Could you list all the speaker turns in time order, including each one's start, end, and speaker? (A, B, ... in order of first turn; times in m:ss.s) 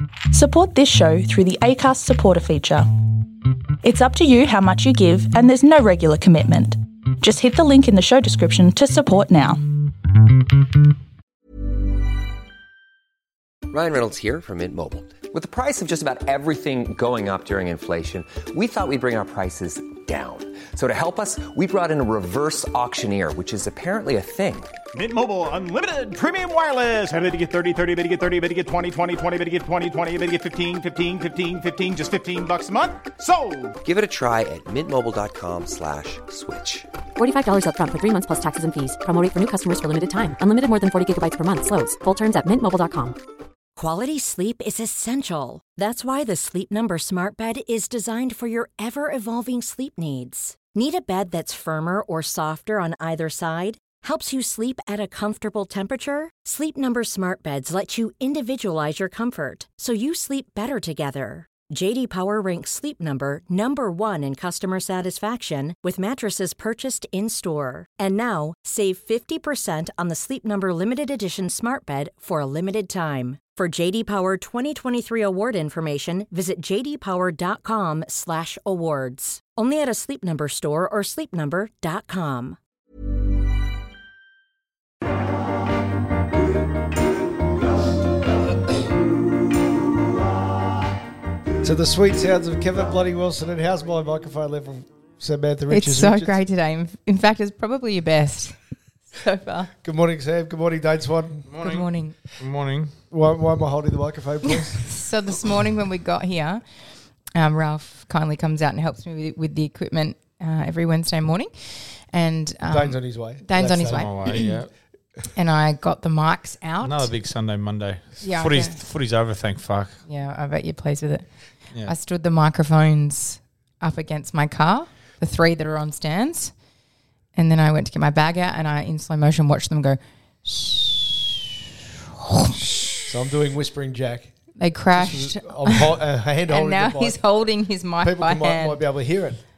0:00.3-0:02.9 A
0:03.8-0:09.6 A
0:13.7-0:24.7 B
0:24.9-0:33.8 C
0:33.8-0:36.9 B
0:37.2-0:43.2 D
0:43.8-1:22.6 E
1:31.6-1:36.4 F
1:35.7-1:38.6 G
1:39.1-1:39.7 G
1:39.8-1:41.5 F
1:41.5-1:42.9 H
1:41.6-1:42.2 G
1:43.1-1:44.9 F
1:44.7-1:46.6 G
1:47.4-1:54.6 G
1:52.7-1:54.6 F
1:53.9-1:54.7 H
1:55.3-1:57.1 G
1:56.8-2:00.0 H
1:58.2-1:58.8 G
2:00.1-2:06.5 G
2:07.4-2:11.4 G
2:12.2-2:12.6 G
2:13.0-2:14.3 F
2:14.6-2:18.8 G
2:14.9-2:17.2 F
2:18.0-2:19.4 F